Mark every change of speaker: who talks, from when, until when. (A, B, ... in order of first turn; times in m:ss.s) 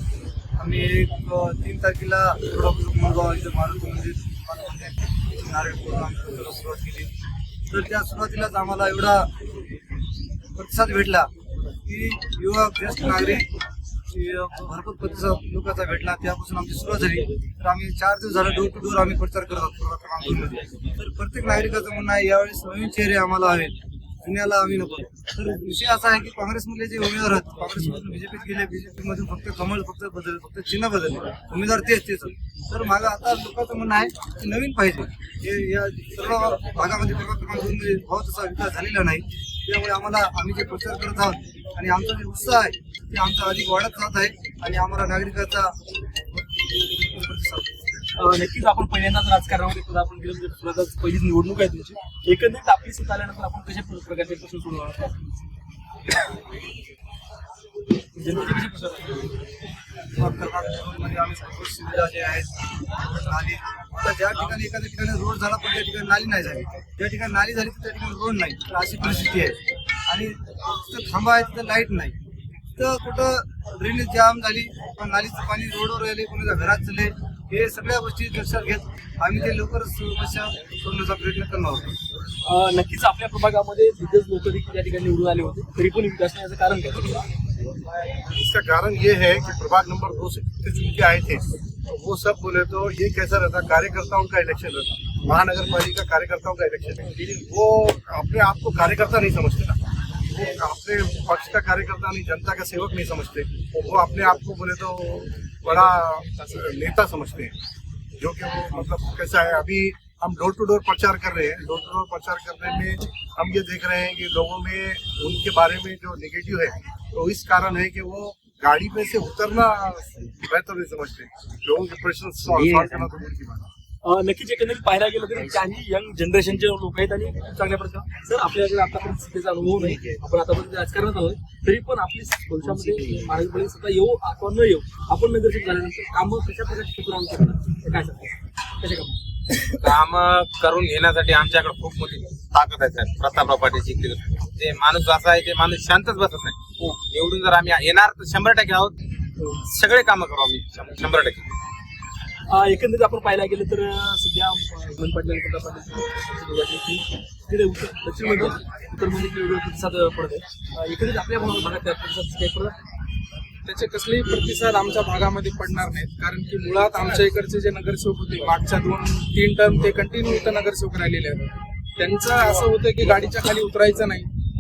0:00.6-0:07.1 A
0:07.7-0:09.3 A
0:10.5-0:11.3 A
0:11.8-0:13.5 A
0:14.1-0:48.1 A
0:48.2-0:55.1 B
0:58.2-0:59.2 B
1:00.2-1:12.2 A
1:12.8-1:21.9 A
1:22.4-1:27.2 B
1:28.2-1:47.5 C
1:48.2-2:03.7 C
2:04.0-2:19.1 B
2:19.8-2:29.0 D
2:29.5-2:31.5 D
2:32.5-2:42.8 B
2:43.6-2:54.3 E